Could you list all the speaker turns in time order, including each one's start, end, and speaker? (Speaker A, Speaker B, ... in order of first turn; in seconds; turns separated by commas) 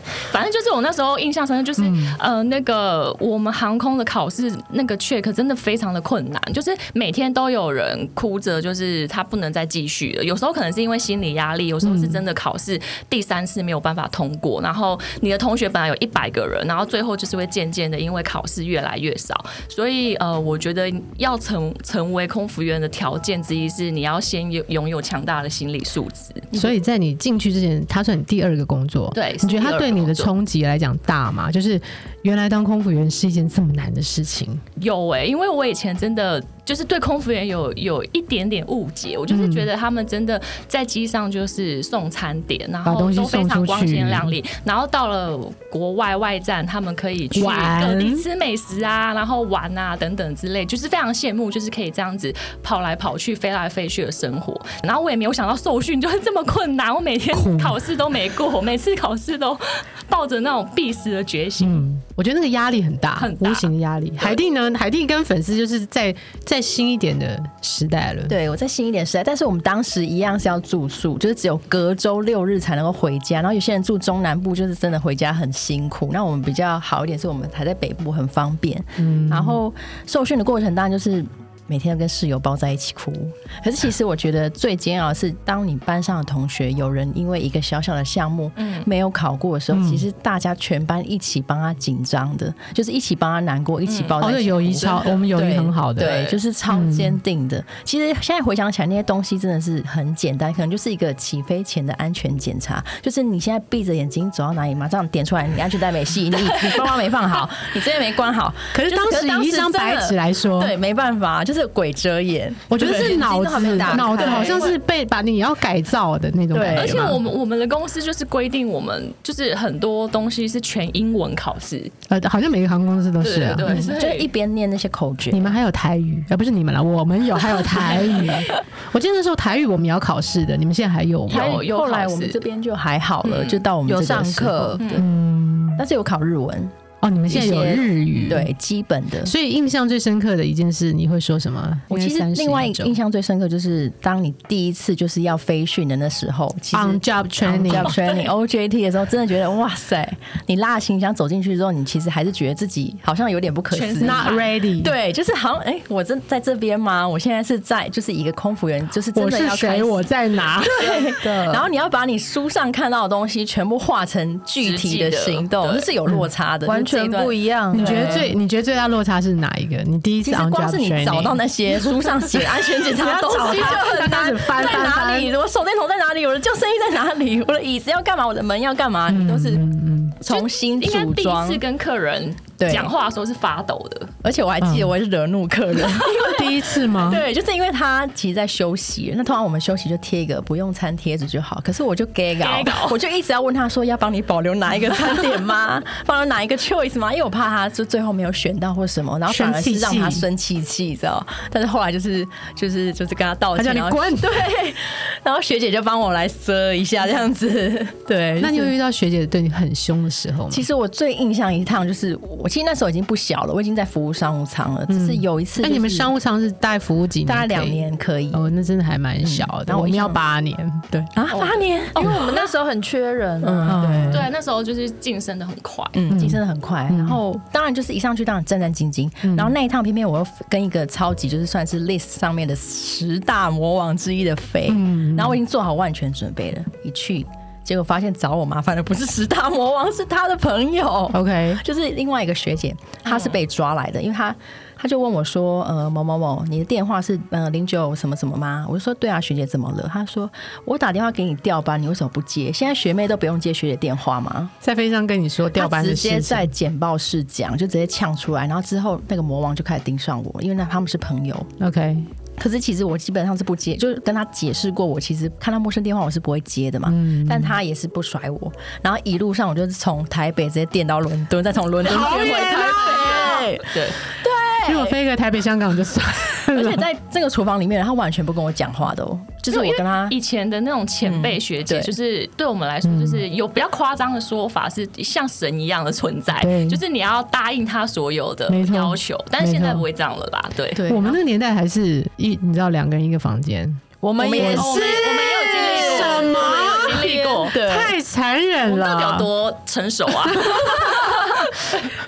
Speaker A: 0.3-26.7, Speaker B: 1.8-2.2, Speaker B: 11.8-12.2, Speaker B: 26.5-34.6, Speaker A: 29.1-30.3, Speaker A: 34.8-61.9, Speaker B: 39.3-39.7, Speaker B: 42.9-44.4, Speaker B: 47.3-48.3, Speaker B: 57.3-57.8, Speaker B: 61.6-68.4, Speaker A: 63.2-64.4, Speaker C: 68.3-114.7, Speaker B: 79.0-79.6, Speaker A: 88.6-88.9, Speaker B: 89.7-90.0, Speaker A: 93.9-94.2, Speaker B: 94.2-97.2, Speaker A: 106.5-107.0, Speaker B: 108.7-110.8, Speaker B: 112.7-117.2, Speaker A: 113.8-114.8, Speaker C: 116.5-117.2, Speaker A: 116.7-121.9, Speaker B: 122.1-123.9, Speaker A: 123.2-124.3, Speaker C: 123.6-125.6, Speaker B: 125.3-131.7, Speaker A: 127.7-128.6, Speaker A: 131.3-132.4, Speaker C: 131.3-135.1, Speaker A: 133.2-133.7, Speaker D: 133.9-135.0, Speaker B: 134.4-135.9, Speaker A: 134.8-135.1, Speaker C: 135.8-136.7, Speaker B: 137.0-138.5, Speaker C: 137.3-139.3, Speaker B: 139.2-143.0, Speaker C: 141.9-168.3, Speaker B: 146.7-148.0, Speaker A: 147.8-148.3, Speaker A: 153.7-154.5, Speaker B: 154.0-154.9, Speaker B: 159.1-161.4, Speaker D: 161.2-161.6, Speaker A: 164.6-165.9, Speaker D: 166.7-168.3, Speaker B: 167.7-175.3, Speaker C: 170.2-179.7, Speaker B: 179.1-180.2, Speaker C: 180.2-181.6, Speaker A: 180.3-184.1, Speaker C: 182.6-182.9, Speaker C: 184.2-208.7, Speaker B: 184.6-184.9, Speaker A: 186.0-186.5, Speaker B: 186.0-187.3, Speaker A: 192.4-193.0, Speaker B: 199.3-200.3, Speaker B: 203.6-204.5, Speaker B: 208.4-210.7, Speaker C: 210.5-216.1, Speaker B: 214.9-220.9, Speaker C: 217.3-218.4, Speaker C: 219.2-220.2, Speaker C: 221.1-222.4, Speaker A: 221.3-222.5, Speaker D: 222.0-224.2, Speaker C: 223.4-224.3, Speaker B: 223.7-224.3, Speaker A: 224.1-226.0, Speaker C: 225.9-254.5, Speaker B: 226.1-227.2, Speaker B: 229.2-229.5, Speaker B: 234.7-235.4, Speaker B: 241.1-241.6, Speaker A: 243.1-243.4, Speaker B: 254.6-256.5, Speaker C: 255.6-261.5, Speaker B: 261.6-262.1, Speaker C: 262.4-275.0, Speaker B: 266.9-267.6, Speaker B: 271.8-273.5, Speaker A: 272.4-274.0, Speaker B: 274.6-276.9, Speaker C: 276.5-280.2, Speaker A: 279.5-291.0, Speaker C: 281.0-281.9, Speaker B: 282.8-283.2, Speaker B: 286.4-286.8, Speaker B: 288.5-289.9, Speaker C: 290.8-291.2, Speaker B: 290.9-293.8, Speaker C: 294.0-297.9, Speaker D: 294.1-294.5, Speaker B: 294.4-299.3, Speaker A: 294.4-297.6, Speaker A: 298.7-301.8, Speaker B: 300.3-301.3